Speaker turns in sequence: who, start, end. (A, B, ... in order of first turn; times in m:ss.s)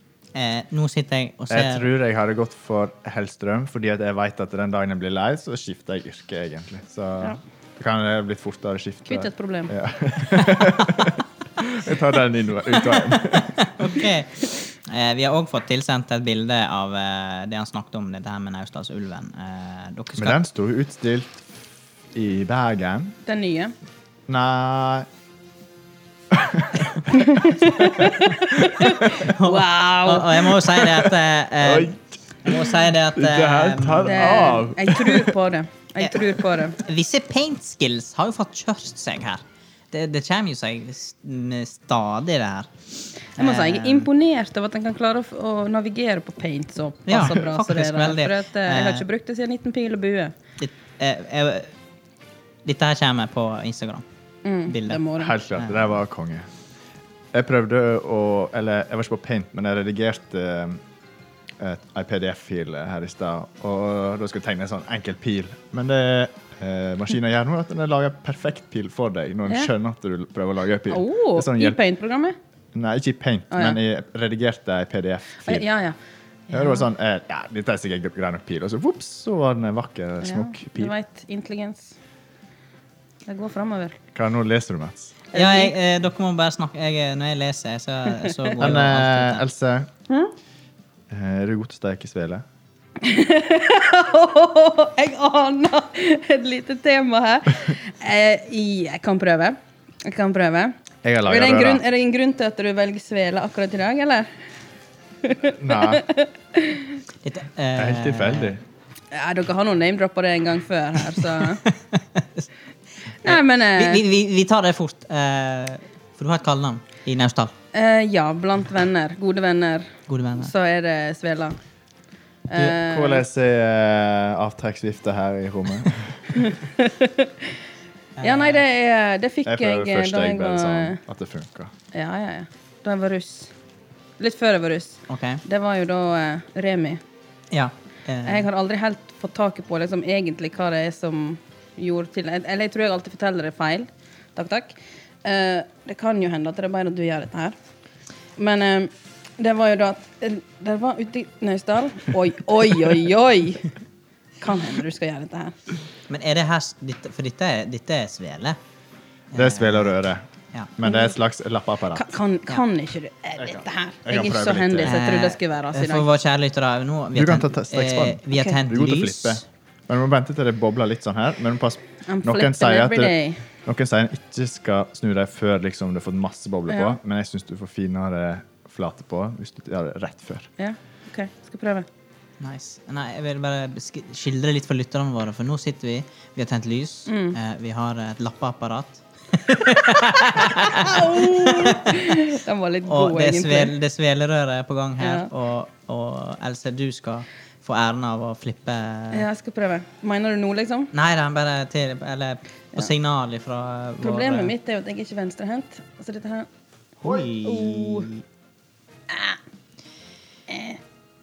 0:00.4-0:01.9 A
0:01.5-0:13.7 B
0:09.1-0:09.7 C
0:10.4-0:11.1 A
0:12.9-0:20.4 A
0:20.2-0:21.4 B
0:22.1-0:23.2 B
0:23.2-0:23.7 C
0:24.3-0:25.1 B
0:26.3-0:27.1 B
0:27.1-0:30.8 C
0:29.2-0:34.6 A
0:31.6-0:35.3 B
0:34.0-0:36.8 C
0:36.0-0:42.8 A
0:43.4-0:44.1 A
0:43.4-0:50.4 C
0:47.1-0:49.1 A
0:50.6-0:51.7 A
0:52.6-0:54.0 A
0:54.4-0:55.3 C
0:54.7-0:55.9 A
0:55.2-0:56.5 B
0:57.3-1:00.8 B
1:01.6-1:11.8 B
1:10.9-1:12.4 C
1:12.7-1:15.7 B
1:13.5-1:13.8 C
1:15.4-1:16.0 C
1:16.5-1:16.8 C
1:16.5-1:20.9 B
1:20.2-1:21.9 C
1:23.3-1:24.0 C
1:24.1-1:25.2 B
1:25.3-1:25.7 C
1:25.3-1:29.4 A
1:28.1-1:28.6 C
1:28.6-1:29.9 B
1:31.1-1:32.4 B
1:33.0-1:44.3 C
1:41.0-1:41.8 B
1:45.2-1:47.0 C
1:45.6-1:46.0 B
1:47.2-1:48.6 A
1:47.8-1:48.6 B
1:49.1-1:51.6 C
1:51.4-1:52.5 A
1:53.2-1:57.5 A
1:53.2-1:54.0 C
1:57.7-2:01.6 C
2:00.1-2:00.5 A
2:02.5-2:03.2 C
2:02.6-2:06.4 B
2:06.3-2:07.5 C
2:08.2-2:08.6 A
2:08.2-2:11.0 C
2:09.5-2:11.7 B
2:11.9-2:13.5 C
2:14.2-2:17.0 C
2:15.1-2:15.4 A
2:17.5-2:18.5 A
2:18.2-2:27.6 C
2:28.4-2:33.7 C
2:34.4-2:35.6 C
2:36.1-2:38.6 A
2:39.3-2:40.0 A
2:39.4-2:42.0 B
2:40.8-2:41.1 C
2:41.9-2:46.1 C
2:43.4-2:45.0 B
2:44.8-2:49.4 A
2:47.2-2:53.1 B
2:52.1-2:53.4 C
2:53.6-3:00.5 B
2:56.7-2:57.0 C
3:00.6-3:01.9 C
3:02.4-3:12.2 A
3:07.1-3:07.4 C
3:10.3-3:13.7 C
3:12.9-3:19.3 A
3:15.0-3:15.3 C
3:19.1-3:20.9 C
3:20.9-3:24.5 A
3:24.0-3:26.5 C
3:27.0-3:28.1 C
3:27.0-3:28.2 A
3:29.1-3:29.4 C
3:30.5-3:30.8 C